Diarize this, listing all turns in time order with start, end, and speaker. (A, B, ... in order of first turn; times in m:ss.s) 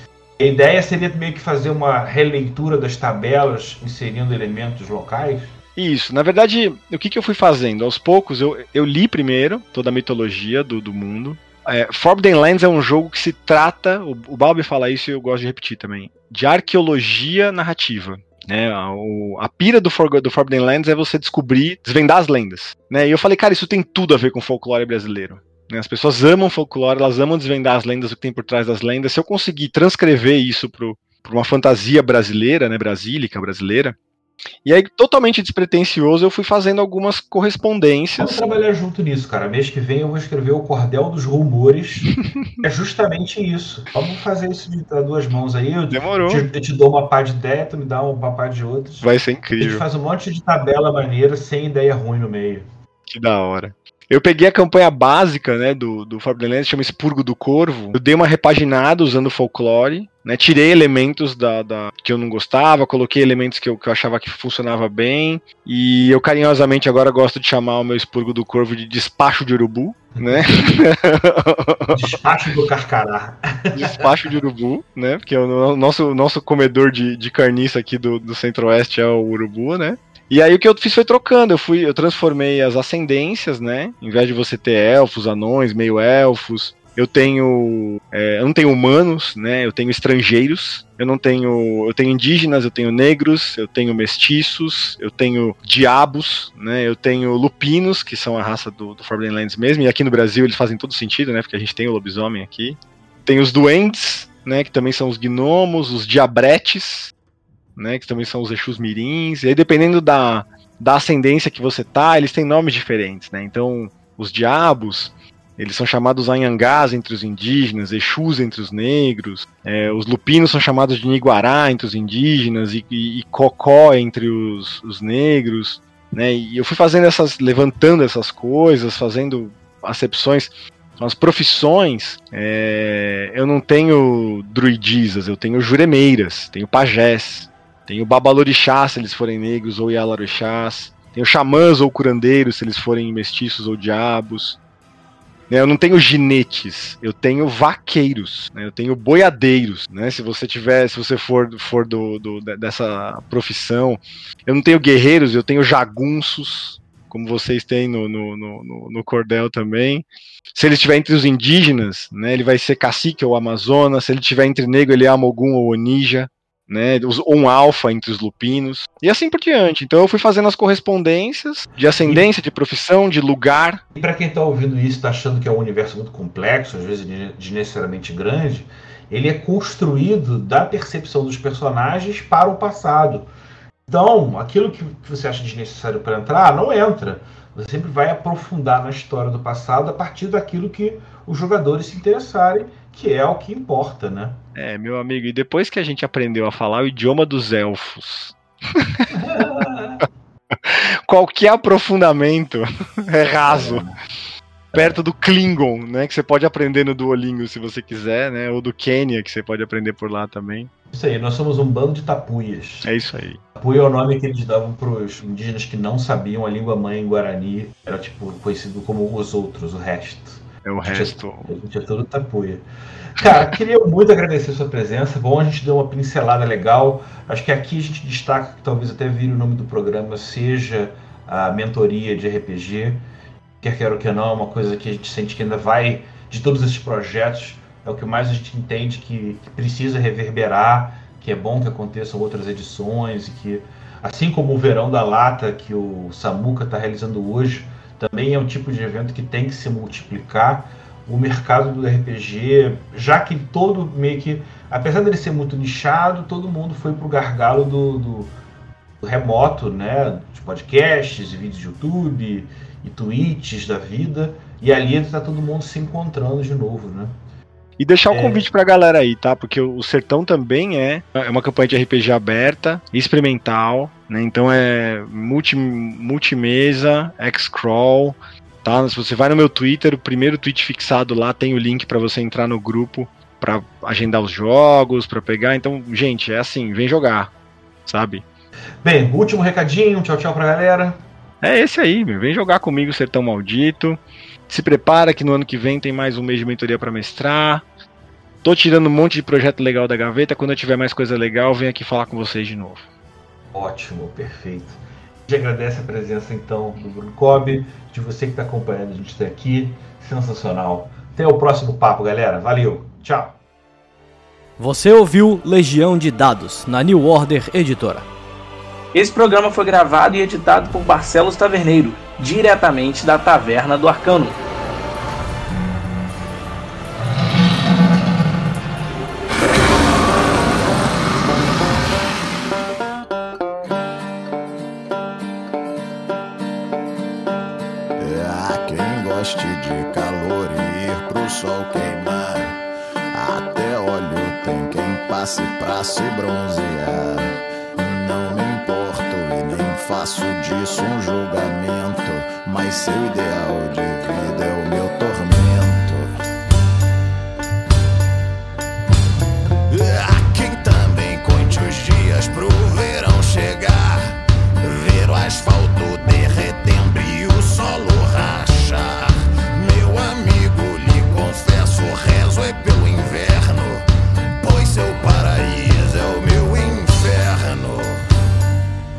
0:00.4-0:05.5 A
0:05.8-0:34.0 B
0:34.6-0:38.4 B
0:38.2-0:42.1 A
0:42.0-0:42.6 B
0:42.6-0:49.1 A
0:45.9-0:46.4 B
0:49.0-0:49.8 B
0:49.6-0:52.7 A
0:53.1-1:12.2 B
1:10.2-1:10.5 A
1:11.9-1:14.1 A
1:13.7-1:47.1 B
1:47.8-2:24.6 B
2:25.5-2:53.8 B
2:54.0-3:03.3 A
3:03.9-3:14.4 A
3:14.6-3:19.2 B
3:19.1-3:20.0 A
3:20.5-3:23.8 B
3:23.5-3:24.0 A
3:24.7-3:30.7 B
3:30.9-3:32.9 A
3:32.8-3:33.4 B
3:33.6-3:42.6 A
3:40.6-3:41.5 B
3:43.2-3:53.0 A
3:53.6-4:18.3 A
4:19.0-4:27.1 A
4:27.8-4:47.3 B
4:28.1-4:28.4 A
4:47.9-4:48.2 B
4:48.8-4:51.0 A
4:51.4-4:57.6 B
4:58.4-5:02.9 B
5:03.5-5:13.4 A
5:14.6-5:18.1 C
5:18.9-5:24.4 D
5:38.0-5:42.6 E
5:43.1-5:56.1 E
5:59.7-6:13.9 E
6:14.4-6:18.0 E